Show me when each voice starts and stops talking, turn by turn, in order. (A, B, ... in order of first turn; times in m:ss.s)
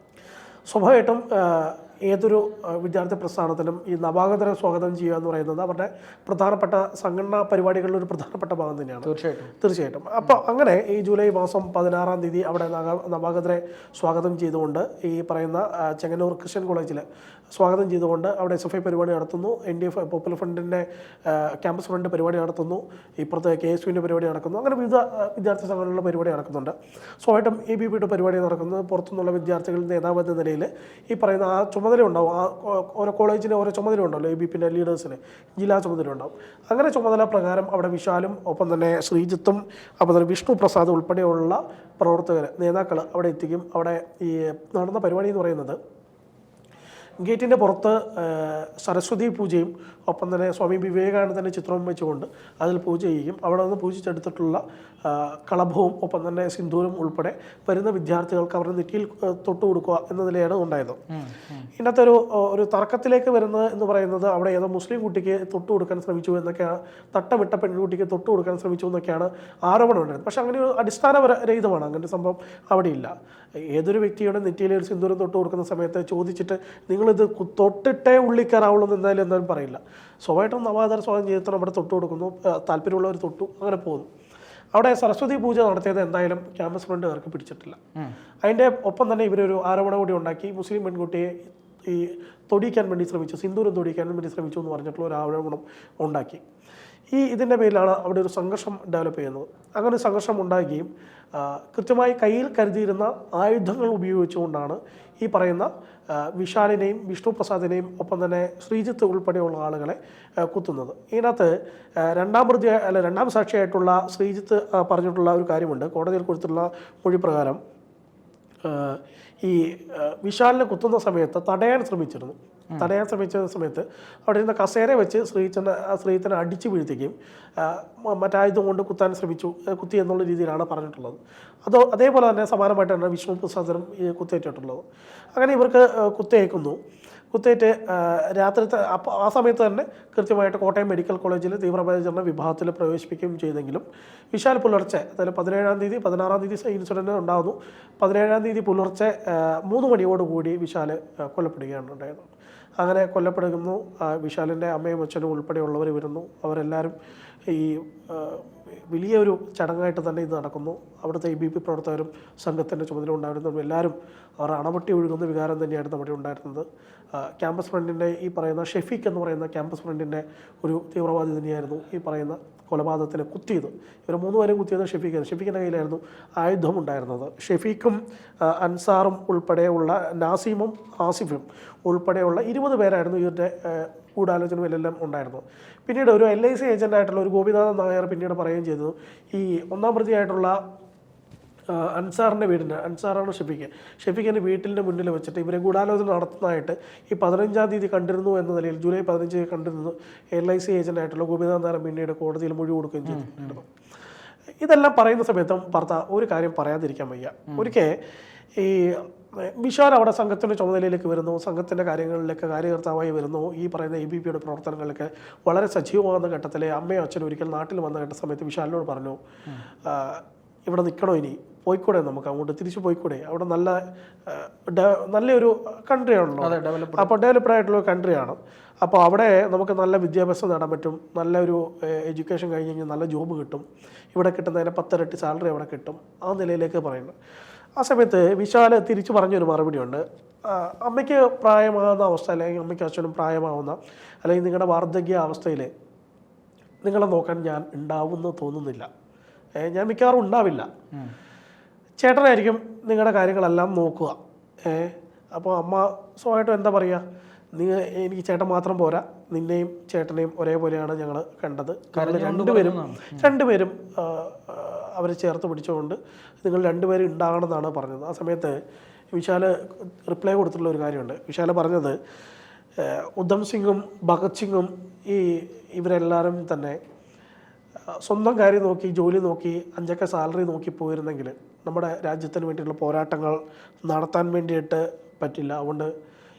0:00.7-0:09.1 A
0:09.0-0:09.5 B
0:09.6-0:45.8 A
0:47.2-1:01.0 A
1:01.1-1:01.7 B
1:01.8-1:13.1 A
1:13.7-1:24.1 A
1:24.7-1:27.8 A
1:28.4-1:31.3 A
1:31.9-1:36.4 A
1:37.1-1:57.6 A
1:58.6-2:14.8 A
2:15.4-2:16.8 A
2:17.3-2:36.9 A
2:37.5-3:10.6 A
3:11.7-3:23.6 A
3:23.1-3:23.6 B
3:24.6-3:28.0 A
3:28.6-3:39.2 A
3:39.8-3:57.2 A
3:46.4-3:47.1 B
3:57.8-4:05.7 A
4:06.8-4:08.9 A
4:09.6-4:10.7 A
4:12.0-4:17.0 A
4:17.6-4:28.6 A
4:21.9-4:23.3 B
4:29.1-4:32.0 A
4:32.8-4:36.8 A
4:38.0-4:45.9 A